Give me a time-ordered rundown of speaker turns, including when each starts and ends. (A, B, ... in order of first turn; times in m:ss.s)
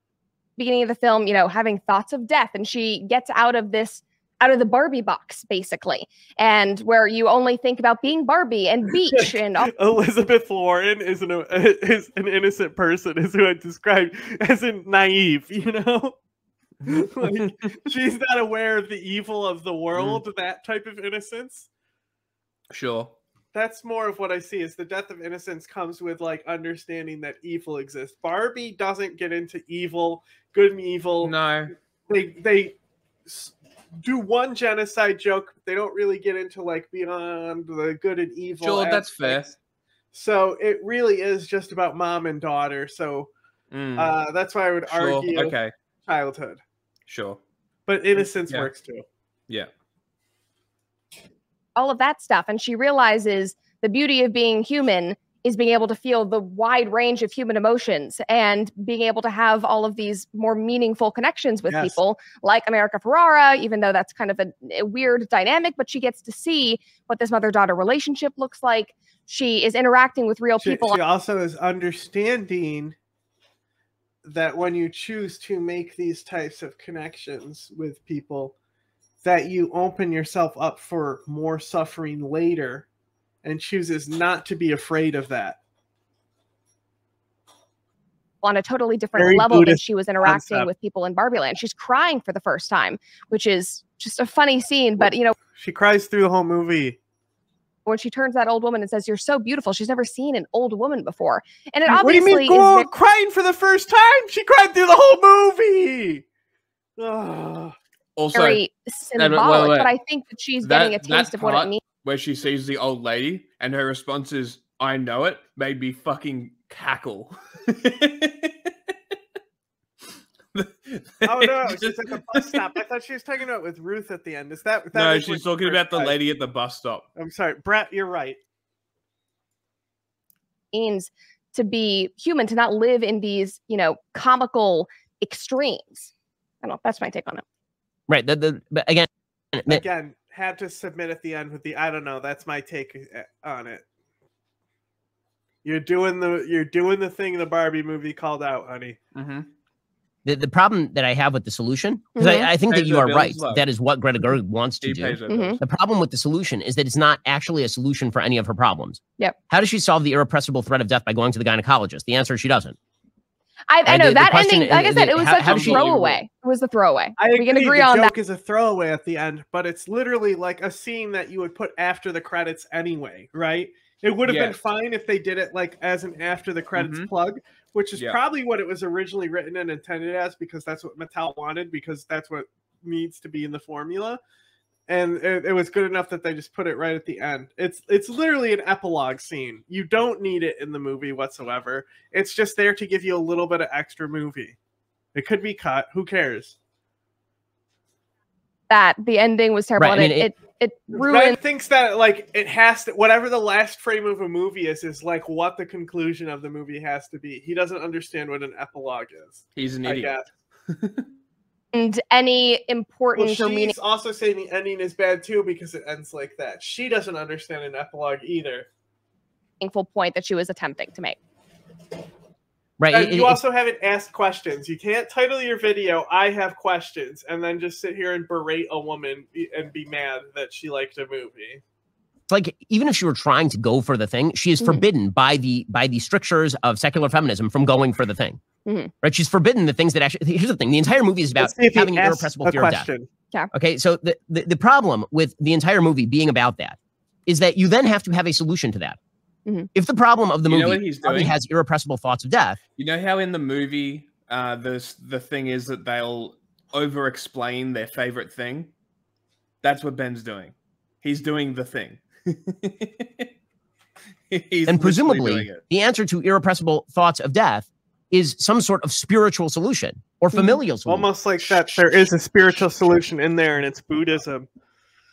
0:00.6-0:09.7 A
0:09.2-0:16.2 B
0:16.8-0:21.7 B
0:20.0-0:20.2 C
0:22.7-0:23.2 C
0:23.5-0:31.3 B
0:31.2-0:31.7 C
0:32.1-0:39.6 B
0:38.6-0:39.5 C
0:40.1-0:43.3 B
0:43.7-0:44.1 C
0:44.0-0:46.6 B
0:44.9-0:45.7 C
0:47.1-0:47.4 C
0:47.9-0:49.0 B
0:48.2-0:48.7 C
0:51.8-1:11.0 A
1:01.7-1:02.0 B
1:10.6-1:13.0 B
1:14.2-1:18.6 B
1:19.2-1:22.9 B
1:23.4-1:25.6 B
1:28.4-1:35.4 A
1:29.2-1:30.7 B
1:35.6-1:37.0 B
1:37.9-1:42.9 A
1:41.9-1:46.2 B
1:47.0-1:47.8 B
1:48.2-1:48.6 C
1:48.3-1:51.8 A
1:49.2-1:49.9 C
1:50.6-1:58.7 C
2:00.6-2:02.6 C
2:01.2-2:06.2 B
2:04.9-2:07.0 C
2:07.2-2:08.4 B
2:10.7-2:16.1 A
2:16.6-2:17.4 A
2:18.1-2:19.8 D
2:19.7-2:23.8 B
2:25.6-2:29.0 B
2:29.2-2:29.5 C
2:30.2-2:42.8 D
2:32.2-2:32.5 A
2:32.7-2:33.7 C
2:34.8-2:35.6 C
2:35.3-2:35.6 A
2:43.7-2:48.1 A
2:43.9-2:45.8 D
2:45.3-2:46.2 C
2:47.2-3:04.2 B
2:54.2-2:54.6 C
2:56.8-2:57.1 C
3:04.9-3:14.6 B
3:15.1-3:16.6 B
3:18.7-3:21.4 A
3:19.8-3:20.3 D
3:20.9-3:30.3 B
3:29.6-3:30.1 C
3:30.7-3:31.1 C
3:31.7-3:33.7 A
3:33.2-3:38.7 B
3:39.6-3:41.2 A
3:42.8-3:43.4 D
3:42.9-3:51.6 B
3:52.3-3:58.4 D
3:58.7-3:58.9 A
3:59.0-4:02.9 D
4:01.4-4:03.1 B
4:03.5-4:09.0 D
4:09.7-4:12.6 D
4:10.5-4:11.3 C
4:12.8-4:18.7 C
4:19.6-4:23.3 C
4:24.3-4:25.6 C
4:24.7-4:32.0 D
4:30.9-4:34.5 B